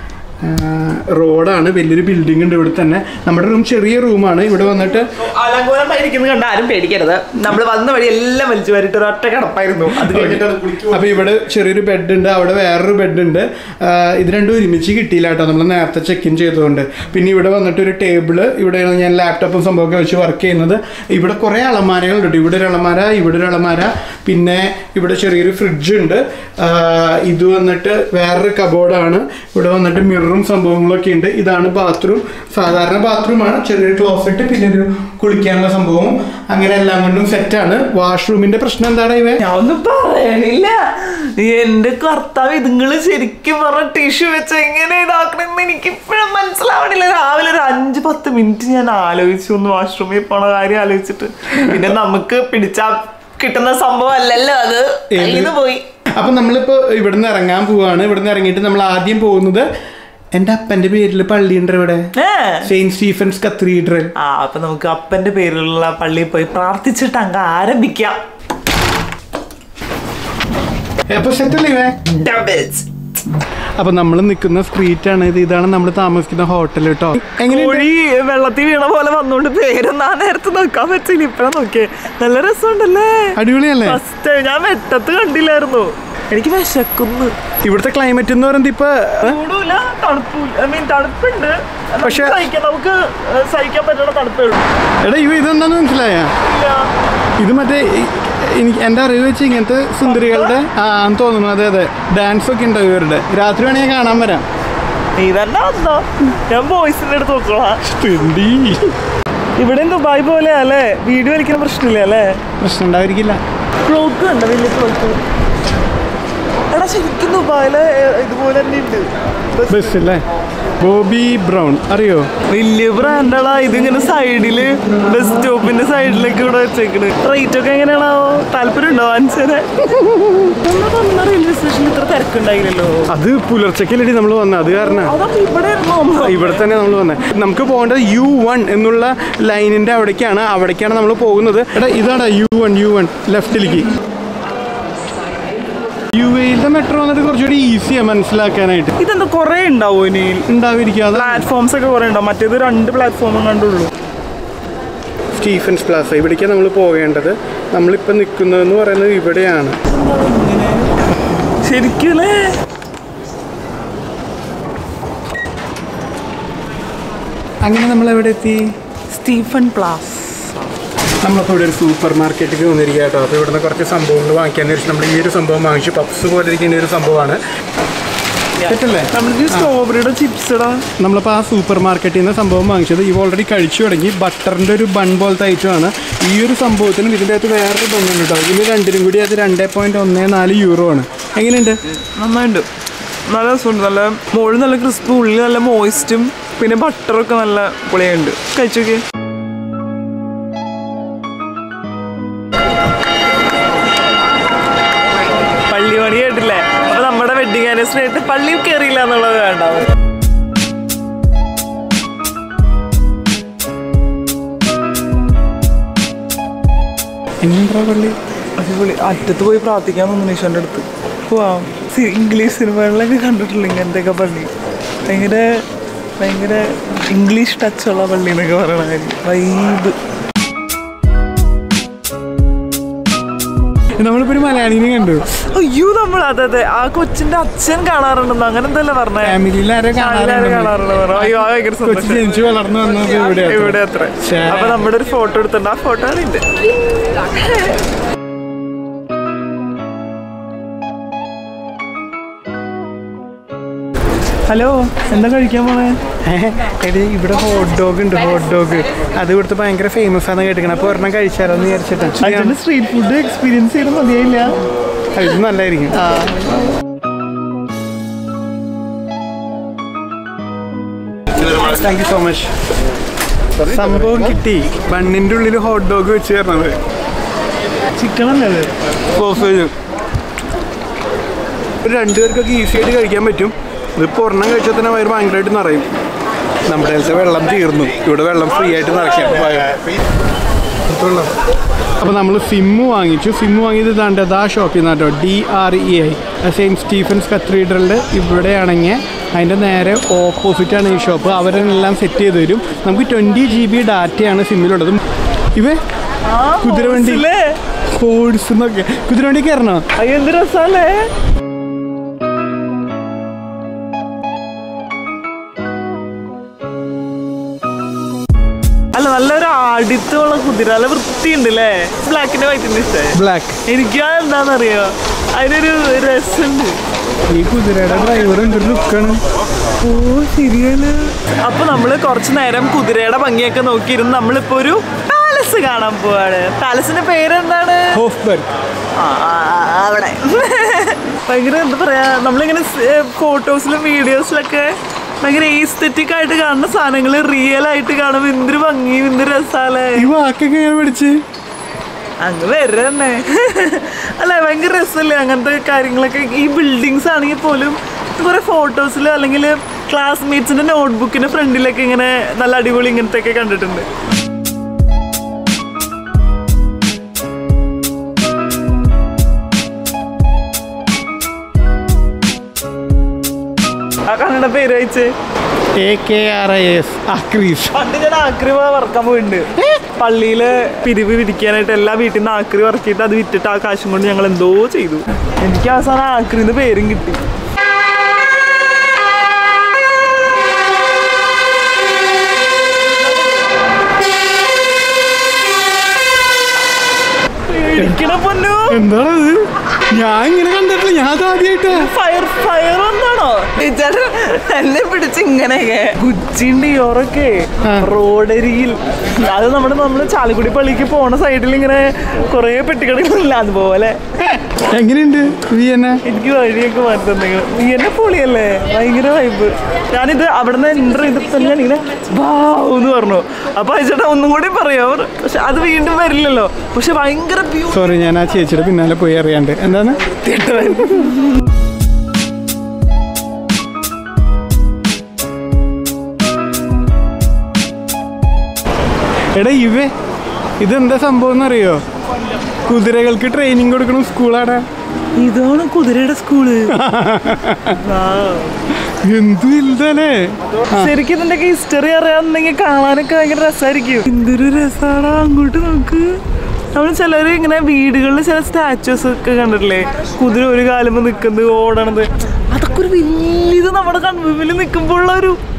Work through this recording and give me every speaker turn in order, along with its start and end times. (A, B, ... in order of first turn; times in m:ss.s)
0:00.4-0:05.1 A
0:05.2-0:11.3 B
0:10.1-0:39.4 A
0:39.4-0:55.8 B
0:55.1-0:55.5 A
0:56.2-0:59.7 A
1:00.3-1:02.0 A
1:02.1-1:02.7 B
1:02.6-1:04.1 A
1:04.2-1:08.2 B
1:11.1-1:12.0 A
1:12.1-1:12.9 B
1:13.8-1:17.9 A
1:17.4-1:27.3 B
1:23.4-1:24.0 A
1:27.6-1:29.4 A
1:29.2-1:34.6 B
1:32.0-1:32.5 A
1:35.0-1:36.3 A
1:36.4-1:36.9 B
1:37.4-1:44.4 A
1:40.0-1:40.6 B
1:45.2-1:47.8 B
1:47.8-1:48.9 A
1:49.6-1:52.4 B
1:52.6-1:53.4 A
1:53.8-1:55.3 B
1:56.7-1:59.9 B
1:59.7-2:00.2 A
2:00.8-2:02.3 A
2:02.5-2:09.9 B
2:09.9-2:10.5 A
2:10.4-2:13.1 B
2:13.1-2:15.2 A
2:15.0-2:16.7 B
2:16.2-2:23.9 A
2:26.2-2:28.9 A
2:29.0-2:30.5 B
2:30.5-2:31.5 A
2:31.1-2:33.9 B
2:35.3-2:39.8 A
2:39.9-2:42.5 B
2:47.7-2:48.7 A
2:49.1-2:50.7 B
2:51.2-2:57.4 A
2:58.6-3:00.8 B
2:58.6-2:59.7 A
3:01.0-3:11.8 A
3:11.9-3:12.7 B
3:13.3-3:19.0 B
3:25.7-3:29.9 B
3:37.4-3:38.2 A
3:38.6-3:44.5 B
3:45.1-3:45.6 B
3:46.2-3:50.0 B
3:54.0-3:55.3 A
3:55.3-3:59.4 B
3:59.2-4:04.8 A
4:00.0-4:02.3 B
4:03.2-4:07.8 B
4:14.5-4:16.0 B
4:16.2-4:22.5 A
4:22.2-4:24.5 B
4:25.1-4:26.0 A
4:26.0-4:26.5 B
4:31.5-4:32.5 A
4:33.6-4:36.8 A
4:38.0-4:38.7 B
4:39.1-4:39.7 A
4:41.8-4:45.9 A
4:46.7-4:49.7 A
4:50.9-4:51.3 A
4:52.0-5:05.0 A
5:05.5-5:05.8 A
5:06.2-5:07.6 B
5:06.6-5:07.2 A
5:07.9-5:09.8 A
5:10.0-5:11.1 B
5:18.9-5:26.8 B
5:23.1-5:23.6 A
5:27.3-5:29.2 A
5:29.8-5:38.0 B
5:37.9-5:38.5 A
5:39.0-5:50.1 B
5:50.0-5:51.2 A
5:52.2-6:03.9 B
6:14.0-6:15.1 B
6:15.8-6:17.7 A
6:17.7-6:27.2 B
6:37.4-6:38.8 B
6:37.8-6:38.1 A
6:38.7-6:41.9 A
6:41.7-6:54.0 B
6:54.2-6:56.0 A
6:56.0-7:07.9 B
7:07.7-7:10.1 A
7:10.1-7:11.2 B
7:19.4-7:19.9 A
7:20.6-7:21.8 A
7:22.6-7:24.6 A
7:25.2-7:26.8 B
7:26.7-7:27.8 A
7:27.8-7:28.6 B
7:28.9-7:30.9 A
7:30.7-7:36.2 B
7:36.7-7:45.4 B